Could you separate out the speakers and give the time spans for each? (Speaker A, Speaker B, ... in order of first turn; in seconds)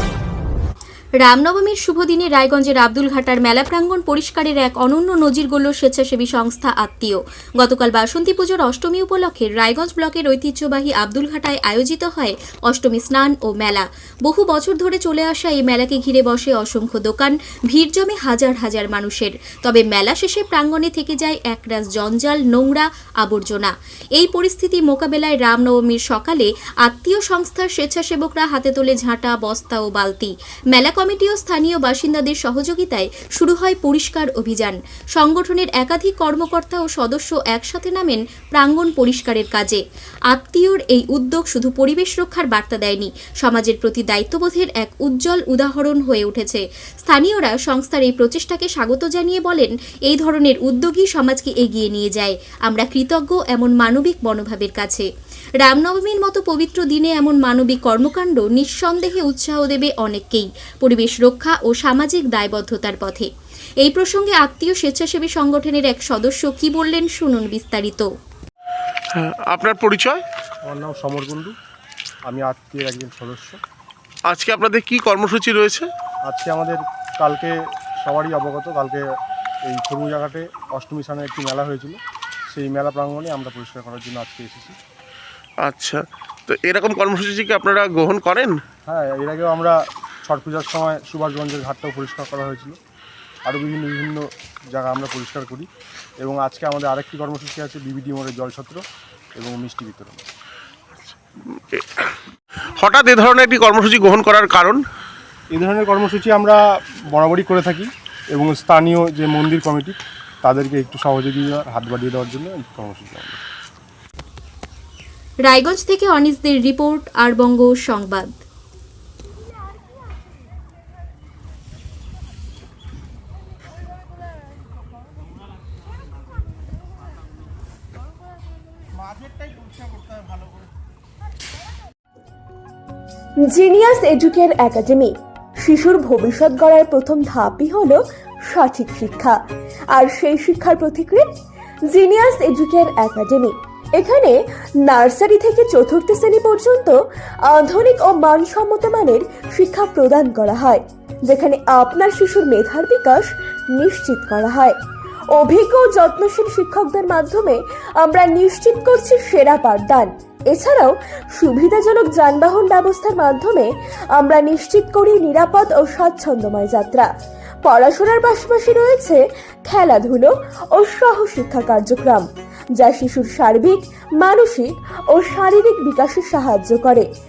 Speaker A: 1.2-55.0, 55.6-63.3, 63.8-68.1, 115.5-118.4
Speaker B: 69.1-70.2, 74.3-75.9, 85.6-88.6, 102.8-104.8
Speaker C: 70.6-71.5, 72.3-73.6, 76.3-79.0, 79.6-82.0, 82.5-84.8, 88.9-92.8, 93.5-95.7, 96.2-98.8, 99.4-100.2, 105.5-113.4
Speaker D: 133.5-139.4, 139.9-141.3, 141.9-147.0, 147.5-154.8, 155.3-167.1, 167.6-172.2, 172.8-177.1